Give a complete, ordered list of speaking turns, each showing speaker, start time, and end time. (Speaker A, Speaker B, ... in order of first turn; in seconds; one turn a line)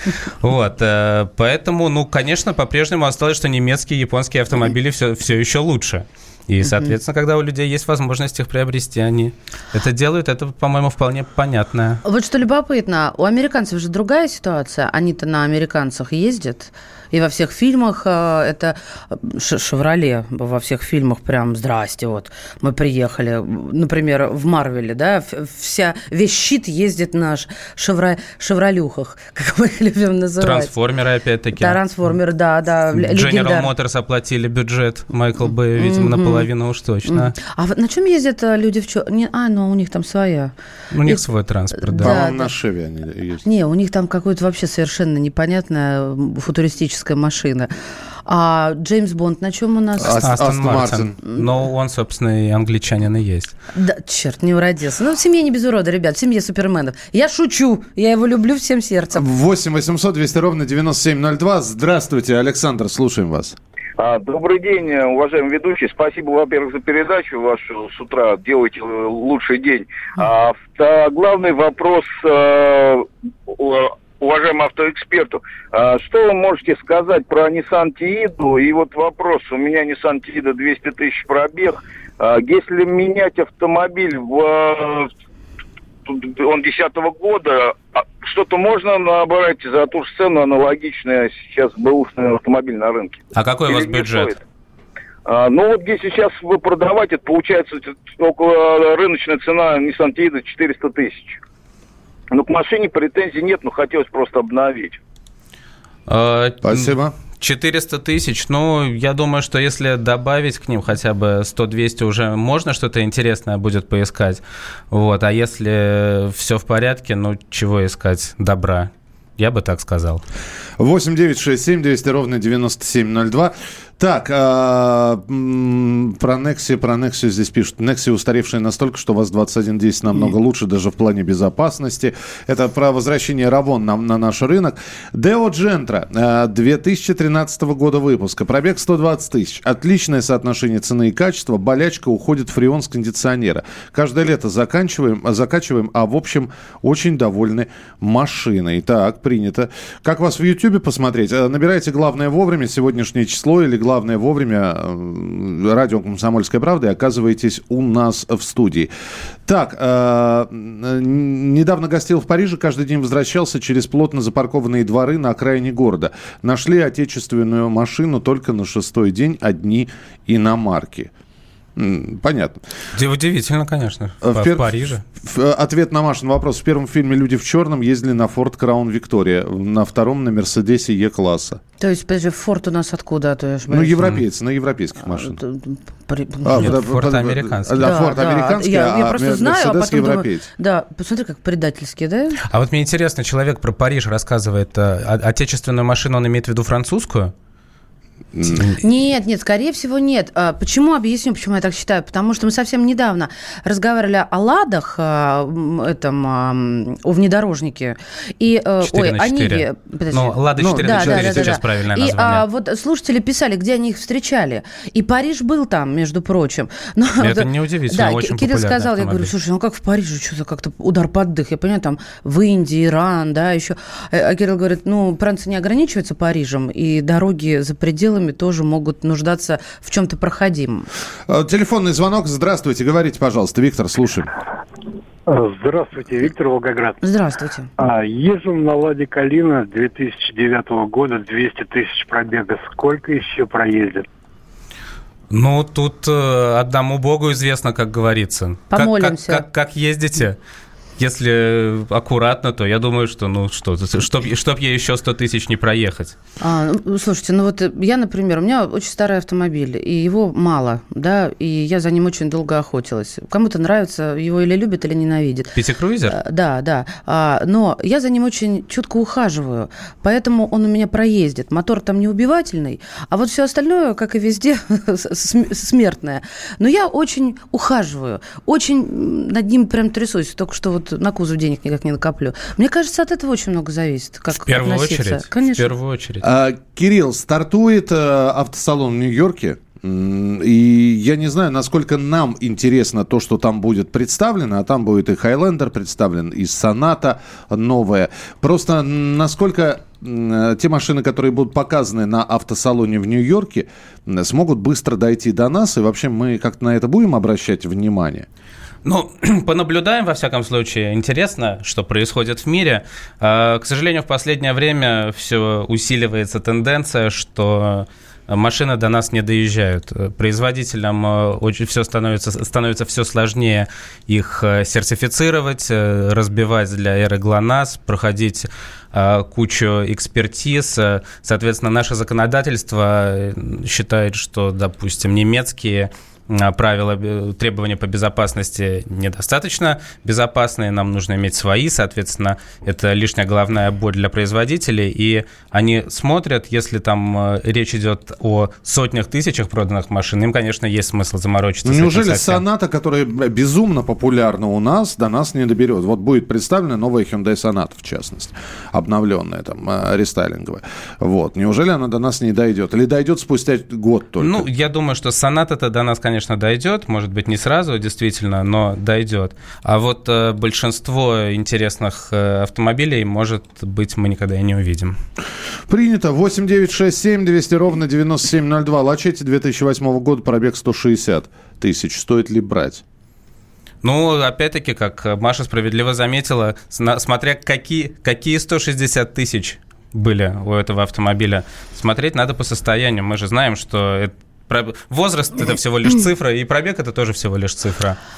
Speaker A: 0.4-12.0
Speaker B: 6.6-6.9
Speaker B: 12.0-30.7
Speaker A: 30.4-31.8
Speaker B: 31.6-33.7
Speaker A: 32.9-37.4
Speaker B: 35.8-36.5
Speaker B: 37.1-40.5
Speaker A: 40.9-42.1
Speaker B: 41.9-42.5
Speaker C: 42.0-43.4
Speaker B: 43.4-47.7
Speaker B: 48.3-50.3
Speaker C: 50.0-51.1
Speaker A: 50.2-53.5
Speaker B: 53.8-59.2
Speaker C: 59.1-63.6
Speaker D: 64.0-85.1
Speaker D: 86.1-94.4
Speaker A: 93.3-94.3
Speaker D: 95.3-101.4
Speaker D: 102.3-105.0
Speaker A: 106.1-120.2
Speaker C: 106.6-107.2
Speaker C: 120.8-158.9
Speaker C: 159.5-171.1
Speaker C: 171.8-172.6
Speaker A: 172.9-175.0
Speaker C: 174.2-181.6
Speaker B: 181.8-184.1
Speaker C: 183.7-185.4
Speaker B: 185.1-186.8
Speaker C: 186.4-190.5
Speaker A: 186.6-188.1
Speaker B: 187.8-192.4
Speaker A: 192.5-197.3
Speaker C: 198.3-198.7
Speaker B: 198.8-230.9
Speaker A: 208.8-212.4
Speaker C: 210.8-211.6
Speaker A: 217.2-219.3
Speaker C: 231.3-234.3
Speaker E: 235.3-237.0
Speaker B: 237.0-237.7
Speaker E: 237.8-244.1
Speaker A: 245.3-250.4
Speaker B: 248.7-249.4
Speaker A: 251.0-256.2
Speaker B: 256.4-265.5
Speaker A: 265.6-266.2
Speaker B: 266.1-285.7
Speaker A: 284.4-286.2
Speaker C: 286.2-308.3
Speaker A: 308.9-352.4
Speaker C: 351.6-364.5
Speaker A: 364.2-375.0
Speaker C: 375.7-382.8
Speaker A: 383.8-398.0